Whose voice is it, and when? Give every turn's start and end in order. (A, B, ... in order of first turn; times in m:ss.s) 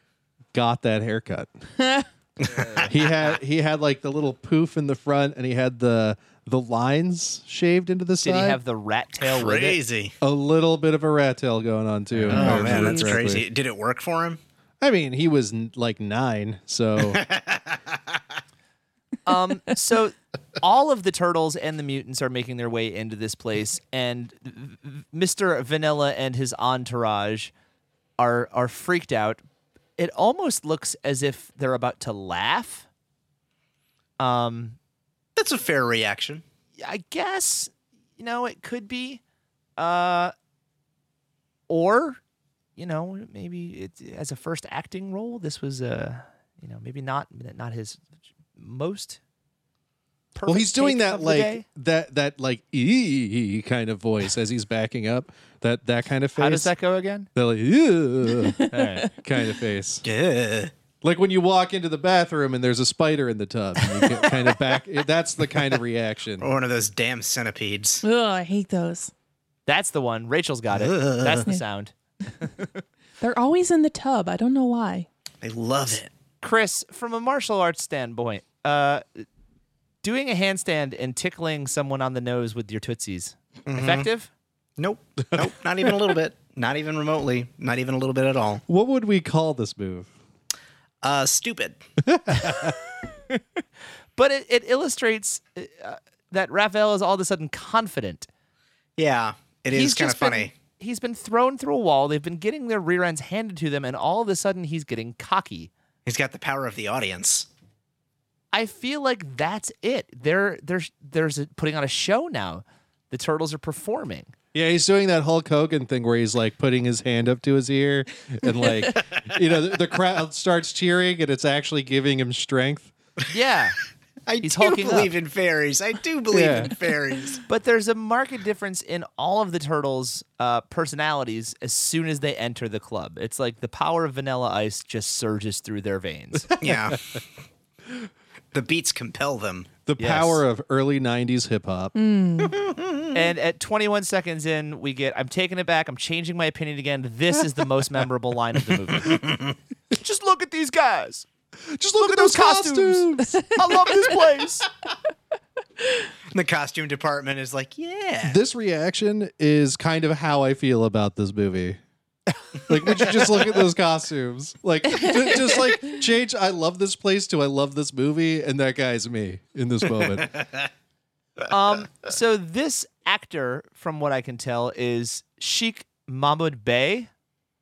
0:00.5-0:01.5 A
0:01.8-0:02.1 B
0:02.4-0:03.1 C
0:02.8-0:08.6 A
0:08.2-0:09.8 D
0:09.2-0:10.2 C
0:10.2-0:13.4 A
0:12.1-0:13.0 D
0:12.3-0:14.4 C
0:14.8-0:17.2 A
0:17.0-0:18.2 C
0:19.3-0:27.5 D
0:28.2-0:29.4 D
0:30.0-0:32.9 D
0:34.2-0:34.8 D
0:35.4-0:36.4 C
0:36.8-0:39.2 D
0:39.8-0:40.3 D
0:41.7-0:42.2 D
0:42.8-0:48.0 D
0:48.6-0:49.2 D
0:50.4-0:51.6 D
0:50.5-0:56.7 A
0:56.4-0:57.3 D
0:57.4-1:00.0 A
0:58.4-0:59.0 B
0:58.7-0:59.1 D
1:00.0-1:00.7 C
1:01.0-1:06.5 A
1:06.4-1:08.0 C
1:08.0-1:09.1 B
1:09.7-1:12.8 D
1:10.7-1:11.5 C
1:13.2-1:15.1 B
1:15.4-1:16.1 C
1:16.4-1:19.3 D
1:20.0-1:24.3 D
1:23.7-1:24.1 C
1:24.8-1:28.6 C
1:25.4-1:26.1 A
1:28.7-1:30.1 A
1:31.0-1:31.8 C
1:32.0-1:32.8 A
1:34.2-1:38.3 D
1:39.0-1:40.5 C
1:39.7-1:45.7 D
1:46.1-1:47.5 C
1:48.5-1:54.3 D
1:54.5-2:02.9 A
2:03.3-2:03.8 D
2:04.3-2:07.4 C
2:04.4-2:05.1 D
2:06.3-2:06.7 A
2:07.5-2:16.5 D
2:16.5-2:17.0 A
2:16.6-2:17.1 C
2:18.5-2:19.7 C
2:19.9-2:21.9 A
2:20.0-2:20.4 D
2:22.0-2:22.6 B
2:22.4-2:23.2 C
2:23.1-2:29.4 D
2:29.0-2:29.6 C
2:29.9-2:31.3 D
2:31.6-2:33.4 A
2:32.0-2:34.7 D
2:36.3-2:38.4 C
2:38.2-2:41.8 A
2:42.7-2:50.3 A
2:44.9-2:45.5 B
2:51.5-2:57.1 D